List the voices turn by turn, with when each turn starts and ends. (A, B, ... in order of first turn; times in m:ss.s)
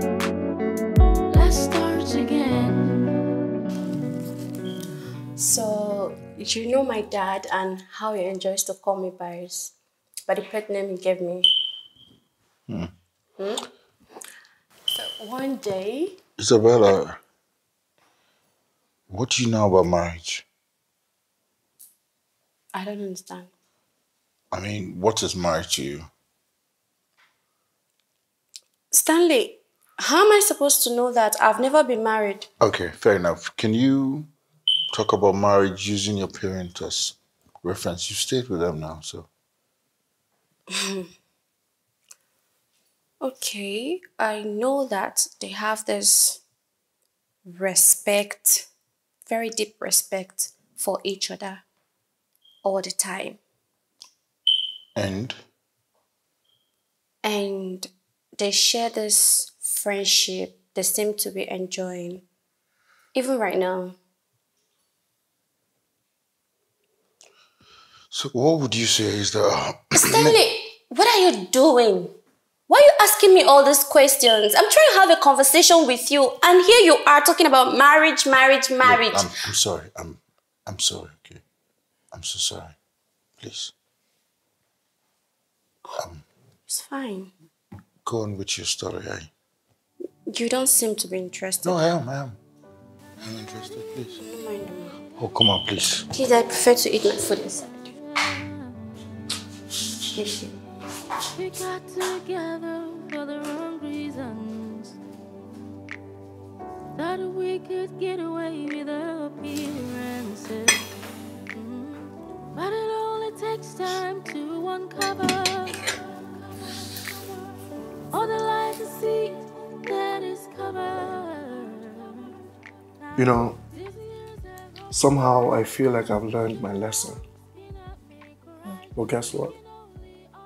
0:01.3-0:03.0 A
0:05.4-0:09.7 B
0:10.3-0:11.5 B
0:12.7-0:12.9 C
0:13.4-0:13.7 B
0:14.9-0:16.2 B
0:16.4-0:17.2 C
0:19.1-0:20.4 C
0:22.7-0:23.5 B
0:24.5-0:26.1 C
0:28.9-0:32.5 B
0:32.6-0:34.3 C
0:34.9-0:39.3 C
0:40.7-0:41.1 B
0:43.2-0:46.4 B
0:47.4-0:48.7 B
0:49.2-0:51.6 B
0:52.6-0:53.4 B
0:55.0-0:55.4 C
0:57.2-1:02.2 B
1:03.1-1:04.0 B
1:08.1-1:10.4 C
1:10.0-1:12.2 B
1:12.7-1:19.3 B
1:18.8-1:21.4 C
1:22.1-1:22.8 C
1:23.4-1:23.7 C
1:26.0-1:26.2 C
1:26.7-1:27.3 B
1:28.0-1:29.3 C
1:30.3-1:31.8 B
1:31.6-1:32.4 C
1:33.2-1:34.2 C
1:34.2-1:35.0 B
1:35.2-1:36.1 C
1:36.1-1:37.9 B
1:38.3-1:38.7 A
1:40.1-1:40.6 B
1:41.4-1:45.0 A
1:47.0-1:50.8 A
1:51.5-1:56.0 A
1:58.1-2:02.4 A
2:03.2-2:03.6 D
2:03.9-2:04.4 A
2:04.9-2:07.2 D
2:07.9-2:08.8 A
2:09.0-2:09.6 D